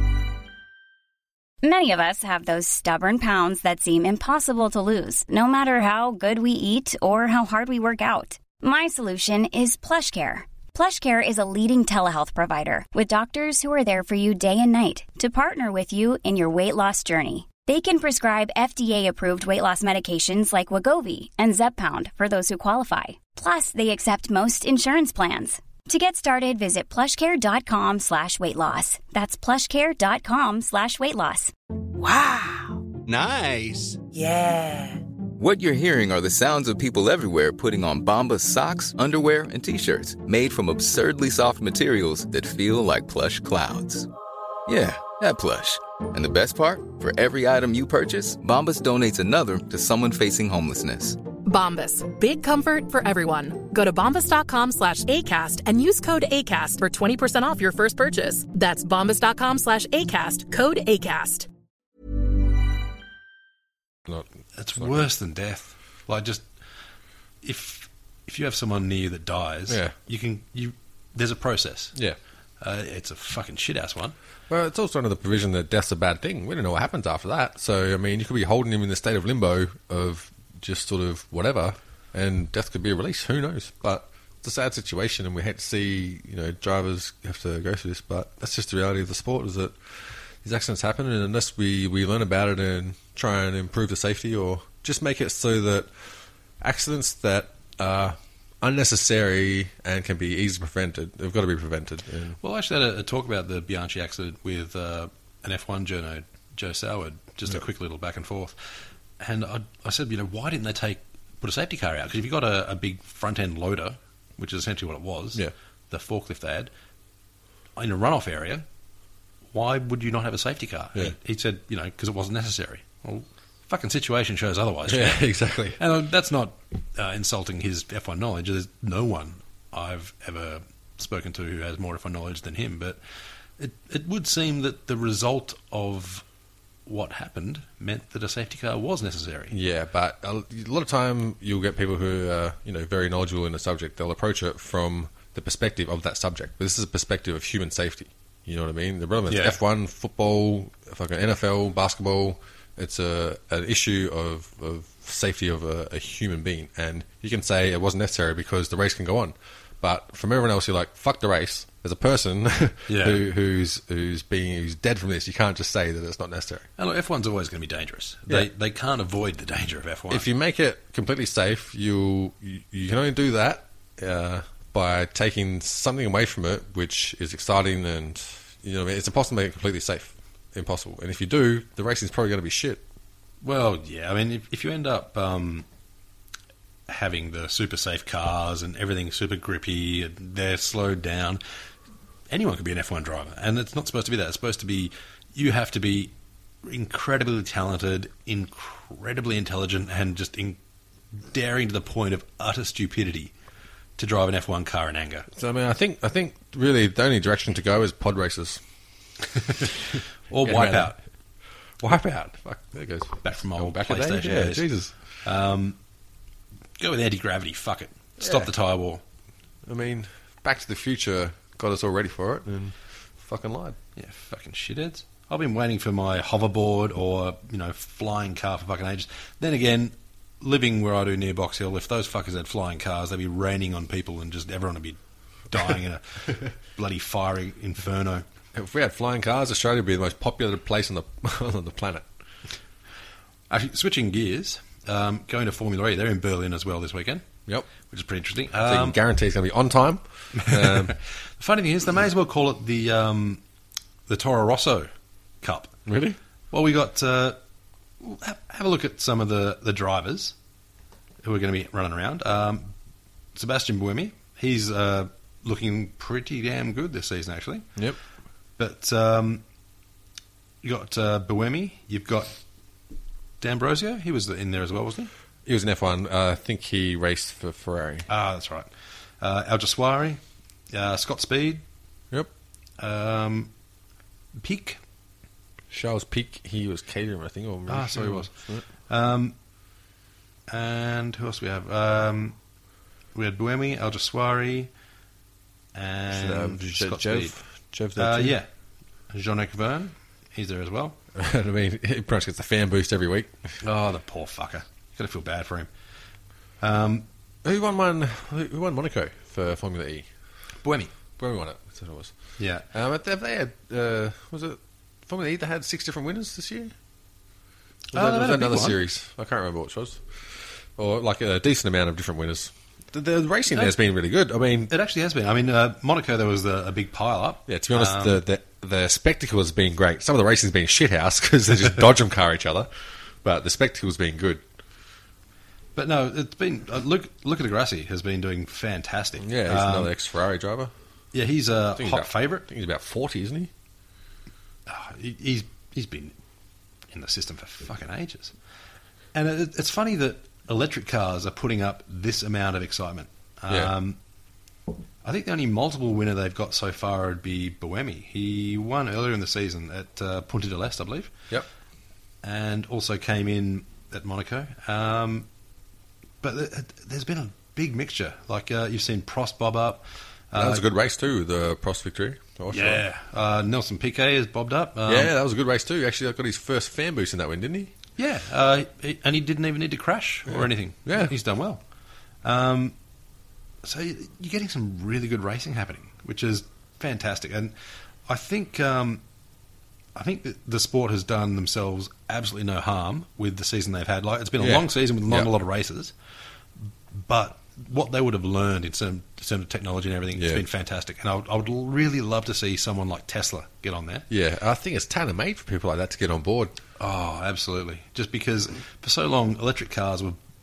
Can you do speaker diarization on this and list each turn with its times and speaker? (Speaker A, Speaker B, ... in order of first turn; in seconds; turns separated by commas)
Speaker A: 1.6-31.5, Speaker B: 32.0-35.0, Speaker C: 35.4-44.1, Speaker C: 44.7-51.2, Speaker D: 51.4-61.5, Speaker E: 64.1-65.0, Speaker F: 64.6-66.5, Speaker F: 67.4-72.0, Speaker E: 69.7-69.9, Speaker F: 72.6-74.1, Speaker E: 74.5-95.9, Speaker E: 96.6-102.4, Speaker F: 102.4-108.5, Speaker F: 109.2-116.7, Speaker F: 117.8-118.6, Speaker F: 119.5-133.0, Speaker E: 124.9-125.8, Speaker F: 133.6-136.2, Speaker F: 136.8-139.6, Speaker E: 139.5-166.7, Speaker F: 149.3-149.6, Speaker F: 162.9-163.2, Speaker F: 166.8-170.2, Speaker E: 170.1-182.8, Speaker F: 183.4-185.6, Speaker F: 186.9-191.4, Speaker F: 192.3-196.1, Speaker F: 196.6-200.6, Speaker F: 201.2-203.3, Speaker F: 204.0-205.3, Speaker E: 205.3-208.6, Speaker F: 210.3-211.0, Speaker E: 210.4-210.9, Speaker E: 211.8-214.9, Speaker F: 213.2-214.7, Speaker F: 215.2-215.8, Speaker F: 216.8-219.0, Speaker E: 218.2-218.5, Speaker E: 219.7-223.8, Speaker F: 223.9-235.0, Speaker F: 235.5-238.2, Speaker E: 238.5-242.1, Speaker F: 243.5-247.2, Speaker F: 247.8-249.0, Speaker E: 248.6-250.9, Speaker F: 250.5-253.4, Speaker F: 254.1-254.9, Speaker F: 255.4-255.7, Speaker E: 255.9-256.2, Speaker F: 256.5-257.4, Speaker F: 258.0-260.3, Speaker F: 261.2-262.7, Speaker F: 263.3-267.8, Speaker F: 268.6-269.4, Speaker F: 270.6-272.4, Speaker F: 273.4-275.1, Speaker E: 275.4-278.1, Speaker F: 278.1-278.7, Speaker F: 279.2-280.2, Speaker F: 280.7-281.6, Speaker F: 282.8-283.5, Speaker F: 284.4-284.8, Speaker E: 285.7-288.6, Speaker F: 287.7-289.3, Speaker F: 290.5-292.4, Speaker F: 293.1-294.7, Speaker F: 295.7-297.3, Speaker E: 296.1-298.4, Speaker F: 297.9-298.5, Speaker F: 299.1-301.0, Speaker E: 301.1-303.5, Speaker F: 303.6-305.7, Speaker F: 306.6-307.1, Speaker E: 307.4-310.1, Speaker F: 310.6-310.9, Speaker E: 311.2-312.1, Speaker F: 312.4-312.7, Speaker E: 312.7-316.7, Speaker F: 317.9-318.8, Speaker E: 317.9-324.7, Speaker F: 324.7-328.2, Speaker E: 327.5-332.7, Speaker E: 333.2-334.4, Speaker F: 335.8-339.9, Speaker E: 339.2-340.7, Speaker F: 341.1-342.4, Speaker E: 341.8-343.5, Speaker F: 344.7-346.1, Speaker F: 346.9-348.3, Speaker F: 349.1-354.0, Speaker F: 355.0-361.1, Speaker F: 362.2-365.3, Speaker F: 366.2-370.6, Speaker E: 370.3-372.8, Speaker F: 372.5-375.1, Speaker E: 374.9-377.7, Speaker F: 378.0-381.6, Speaker E: 380.3-381.1, Speaker F: 382.2-382.7, Speaker F: 383.6-387.5, Speaker F: 388.1-389.0, Speaker F: 389.9-395.9, Speaker E: 394.4-395.3, Speaker F: 396.9-404.1, Speaker E: 400.1-400.4, Speaker E: 404.1-406.5, Speaker F: 406.8-410.2